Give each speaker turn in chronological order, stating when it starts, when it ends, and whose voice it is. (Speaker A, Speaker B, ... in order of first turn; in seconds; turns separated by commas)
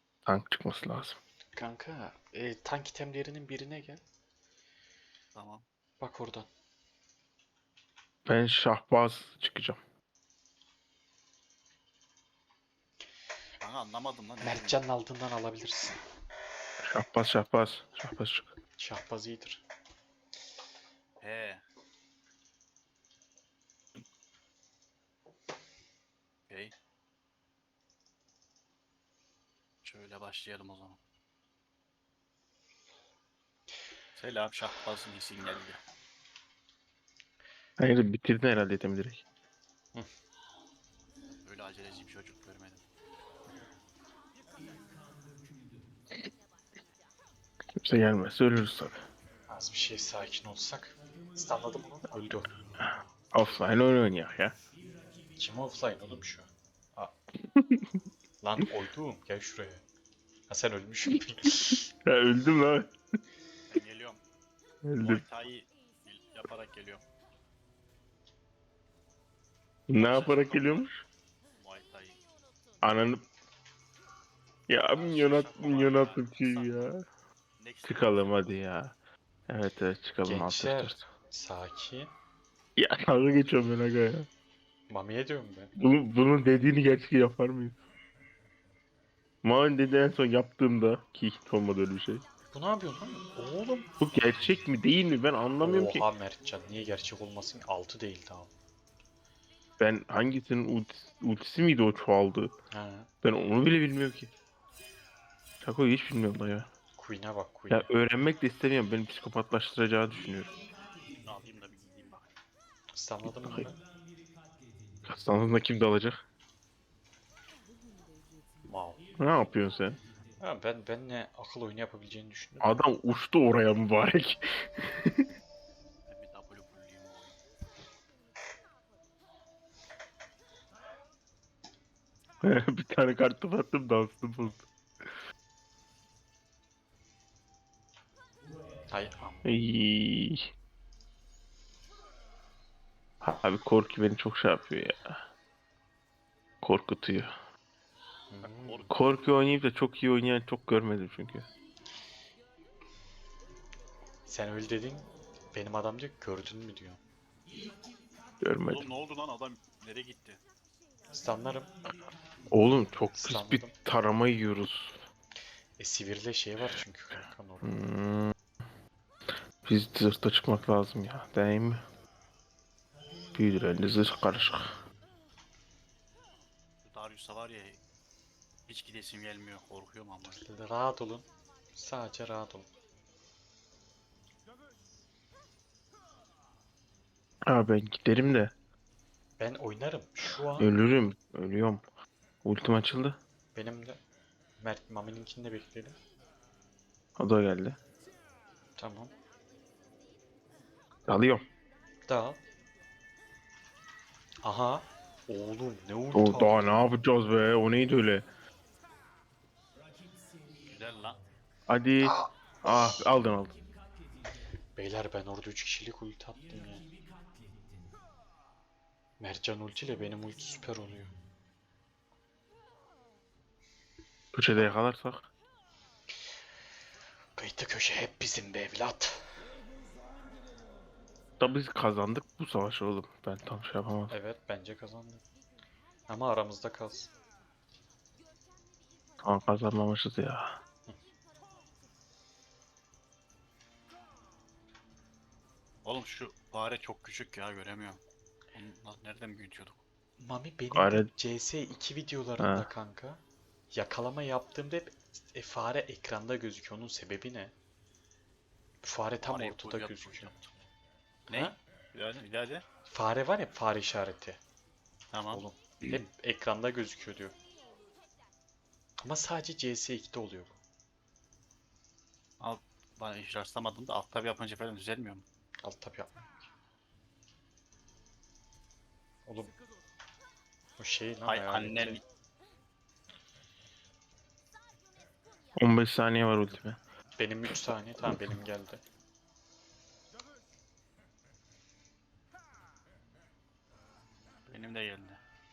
Speaker A: 0.2-1.2, Speaker B: 1.5-4.0, Speaker C: 5.3-5.6, Speaker B: 6.0-6.5, Speaker A: 8.2-9.8, Speaker C: 13.6-14.8, Speaker B: 14.4-16.0, Speaker A: 16.8-18.5, Speaker B: 18.8-19.6, Speaker C: 21.2-21.6, Speaker C: 29.8-31.0, Speaker C: 34.1-35.8, Speaker A: 37.8-39.2, Speaker C: 41.4-42.8, Speaker A: 47.8-48.9, Speaker B: 49.5-52.5, Speaker A: 52.8-54.5, Speaker B: 55.4-57.1, Speaker A: 57.5-57.9, Speaker B: 58.4-59.8, Speaker B: 60.5-61.8, Speaker A: 62.0-62.9, Speaker C: 63.7-64.2, Speaker A: 64.8-65.2, Speaker C: 65.0-67.0, Speaker A: 69.9-71.0, Speaker C: 69.9-70.9, Speaker C: 71.5-72.2, Speaker A: 72.8-73.2, Speaker A: 74.7-77.0, Speaker C: 74.9-76.8, Speaker C: 77.6-78.5, Speaker A: 77.8-78.9, Speaker A: 79.5-81.0, Speaker B: 80.2-82.1, Speaker A: 82.8-84.3, Speaker B: 84.9-85.7, Speaker A: 85.8-87.8, Speaker A: 89.4-92.2, Speaker B: 92.5-93.9, Speaker A: 94.0-96.0, Speaker B: 95.5-98.5, Speaker A: 99.8-102.5, Speaker B: 102.7-103.1, Speaker A: 103.2-104.3, Speaker A: 105.6-106.7, Speaker B: 107.0-107.9, Speaker A: 107.7-110.5, Speaker C: 111.2-112.3, Speaker B: 112.9-113.8, Speaker A: 115.0-116.2, Speaker B: 118.6-119.0, Speaker A: 119.2-120.0, Speaker B: 120.4-122.9, Speaker A: 122.6-125.3, Speaker C: 126.1-127.4, Speaker A: 132.4-134.6, Speaker B: 138.9-139.6, Speaker A: 139.4-140.4, Speaker A: 143.2-145.2, Speaker A: 146.6-147.3, Speaker B: 148.3-148.8, Speaker C: 148.6-148.9, Speaker A: 148.9-151.5, Speaker B: 154.2-157.0, Speaker A: 158.4-158.9, Speaker C: 158.7-160.4, Speaker B: 161.1-161.7, Speaker A: 162.5-165.0, Speaker B: 163.1-163.8, Speaker B: 165.8-167.9, Speaker A: 167.6-168.3, Speaker A: 169.6-171.8, Speaker A: 173.3-174.8, Speaker C: 176.8-177.8, Speaker C: 178.7-180.4, Speaker B: 180.2-182.7, Speaker A: 187.5-188.5, Speaker B: 189.4-190.8, Speaker A: 190.6-191.8, Speaker A: 192.4-193.2, Speaker B: 193.5-194.0, Speaker B: 194.6-196.0, Speaker A: 197.2-197.8, Speaker B: 198.8-199.1, Speaker A: 201.1-201.4, Speaker B: 202.1-202.4, Speaker B: 204.4-206.9, Speaker A: 206.1-208.3, Speaker C: 210.6-211.2, Speaker A: 211.7-213.6, Speaker B: 212.0-213.0, Speaker B: 214.8-216.9, Speaker B: 219.2-221.2, Speaker A: 224.3-225.2, Speaker B: 227.4-229.2, Speaker A: 231.4-234.1, Speaker B: 234.1-235.2, Speaker B: 236.1-237.1, Speaker A: 239.2-240.6, Speaker C: 245.8-248.0, Speaker C: 248.5-249.8, Speaker B: 250.2-257.5, Speaker A: 250.7-251.1, Speaker A: 252.4-252.7, Speaker B: 258.8-260.5, Speaker C: 259.2-260.4, Speaker B: 261.3-261.6, Speaker C: 261.3-262.6, Speaker B: 262.9-264.4, Speaker C: 265.1-265.4, Speaker B: 265.3-267.3, Speaker B: 269.0-270.6, Speaker C: 272.4-275.2, Speaker B: 275.6-276.2, Speaker B: 279.2-279.5, Speaker B: 280.8-282.0, Speaker C: 281.2-282.0, Speaker A: 285.6-286.8, Speaker B: 287.2-288.8, Speaker C: 294.5-295.2